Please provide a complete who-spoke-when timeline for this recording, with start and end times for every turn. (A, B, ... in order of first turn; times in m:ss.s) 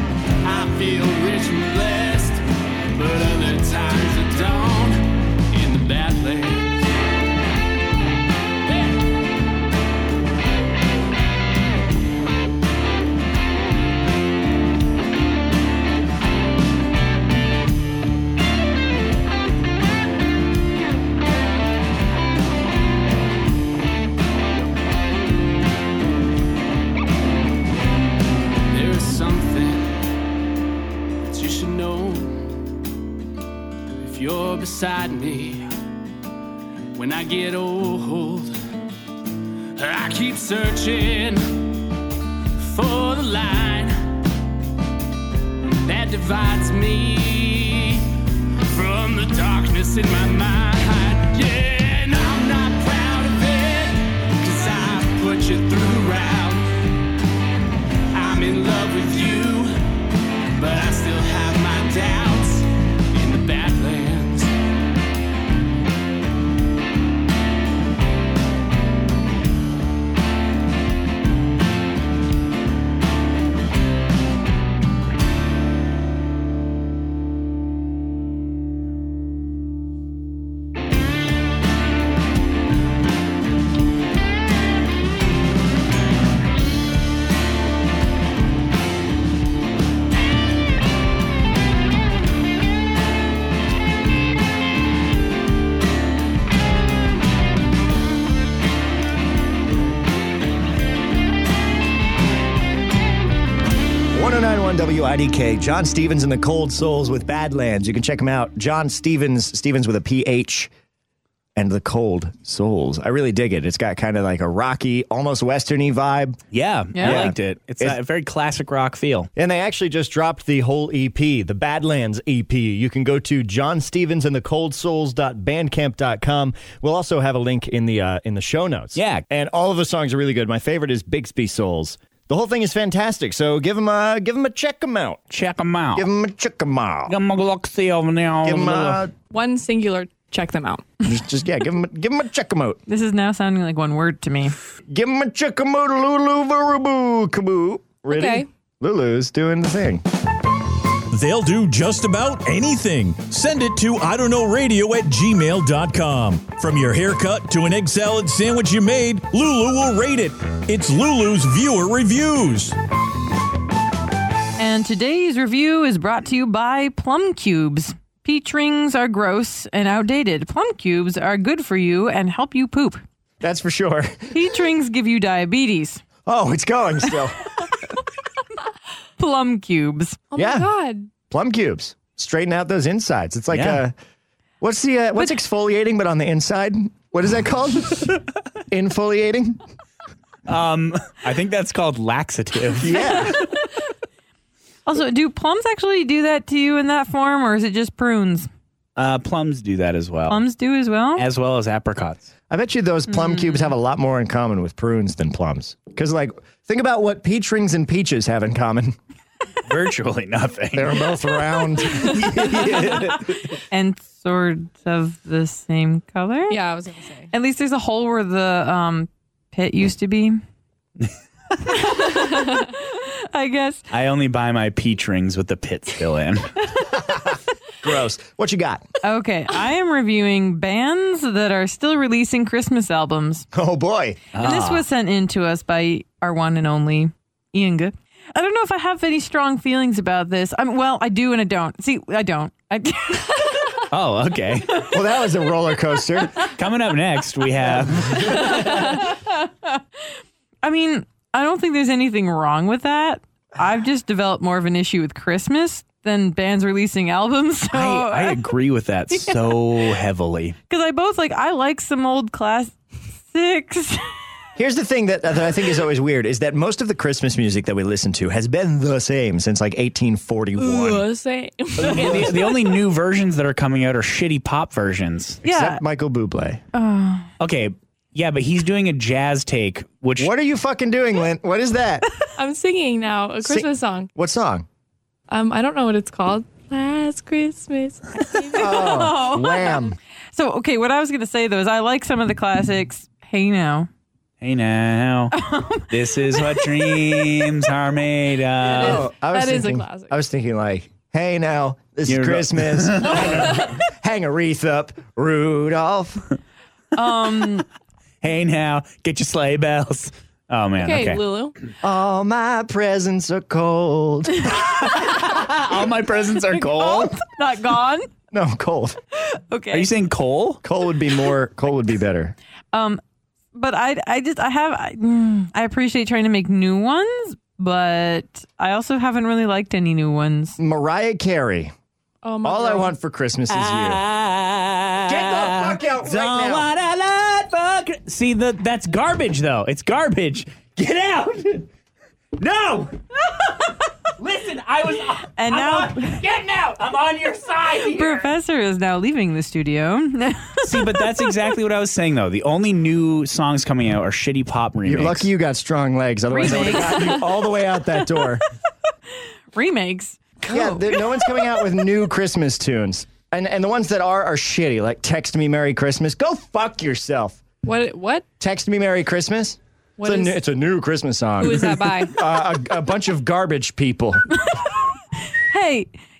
0:00.4-0:06.9 A
0:08.7-0:08.9 A
0:28.7-0:30.0 A
0:31.3-0:32.5 A
0:34.0-0:35.6 A
0:36.9-0:38.6 A
0:39.8-0:41.5 A
0:42.6-0:43.9 A
0:45.8-0:48.1 A
0:48.6-0:56.7 A
0:58.1-0:59.7 A
1:00.6-1:04.5 A
1:44.1-1:50.7 B
1:51.6-1:56.4 B
1:56.5-1:59.3 C
1:56.9-1:57.2 D
1:57.0-1:58.0 B
1:59.4-2:15.3 B
2:09.0-2:09.2 C
2:15.3-2:16.0 C
2:15.9-2:17.1 B
2:17.1-2:19.0 C
2:18.4-2:19.1 B
2:19.3-2:20.9 E
2:21.0-2:22.8 B
2:22.9-2:24.5 D
2:24.9-2:30.0 B
2:28.1-2:28.5 E
2:31.1-2:42.7 F
2:44.6-2:53.0 D
2:53.4-2:54.4 B
2:54.3-2:56.0 D
2:56.2-2:57.5 B
2:59.2-3:00.2 D
3:00.3-3:01.1 E
3:00.4-3:00.7 B
3:01.3-3:03.9 B
3:03.5-3:03.8 C
3:04.6-3:09.6 B
3:10.5-3:13.4 C
3:12.8-3:13.4 B
3:14.8-3:18.5 D
3:19.0-3:20.4 C
3:20.3-3:21.2 D
3:21.2-3:22.3 C
3:22.5-3:29.0 B
3:23.1-3:23.6 D
3:29.6-3:31.0 C
3:30.7-3:33.1 B
3:31.9-3:33.4 C
3:33.7-3:36.6 D
3:36.5-3:37.3 E
3:37.3-3:40.4 D
3:41.7-3:43.8 D
3:43.9-3:46.5 C
3:46.9-3:48.8 B
3:49.0-3:53.4 D
3:53.5-3:54.2 B
3:54.3-3:54.8 C
3:54.4-4:03.5 D
4:03.9-4:04.9 C
4:04.9-4:06.4 B
4:06.4-4:09.0 C
4:07.8-4:08.5 B
4:08.6-4:09.8 D
4:10.6-4:18.4 D
4:17.7-4:20.6 C
4:19.1-4:19.5 D
4:20.7-4:24.0 D
4:24.6-4:31.0 B
4:30.6-4:32.5 E
4:31.8-4:32.4 B
4:31.8-4:35.4 C
4:35.4-4:35.8 D
4:35.4-4:36.6 B
4:36.7-4:37.3 D
4:37.4-4:40.3 C
4:40.2-4:42.0 B
4:42.4-4:44.1 E
4:43.4-4:44.6 B
4:45.3-4:49.1 E
4:48.6-4:50.0 B
4:48.6-4:49.8 D
4:50.3-4:53.9 D
4:54.4-4:55.3 C
4:55.3-4:55.8 D
4:55.9-4:59.1 C
4:56.4-4:57.4 D
4:58.6-5:00.1 E
4:58.7-5:06.2 B
5:02.1-5:03.5 C
5:06.9-5:07.6 D
5:08.2-5:11.2 C
5:10.8-5:11.5 E
5:11.8-5:14.7 B
5:14.6-5:17.1 C
5:16.6-5:18.1 D
5:18.3-5:19.0 B
5:19.3-5:19.9 D
5:19.7-5:20.6 C
5:20.6-5:22.3 B
5:22.7-5:23.0 D
5:23.5-5:30.6 D
5:30.6-5:31.7 B
5:32.2-5:32.9 E
5:32.4-5:34.0 B
5:33.5-5:41.7 C
5:35.0-5:36.7 B
5:42.4-5:42.9 C
5:44.2-5:48.3 C
5:45.4-5:46.2 D
5:47.9-5:51.0 D
5:50.6-5:55.3 C
5:54.8-5:58.4 B
5:56.3-5:57.2 D
5:59.5-6:01.0 D
6:00.5-6:07.4 B
6:07.6-6:08.2 E
6:08.4-6:14.2 B
6:10.0-6:10.4 E
6:11.4-6:12.1 E
6:15.5-6:15.9 D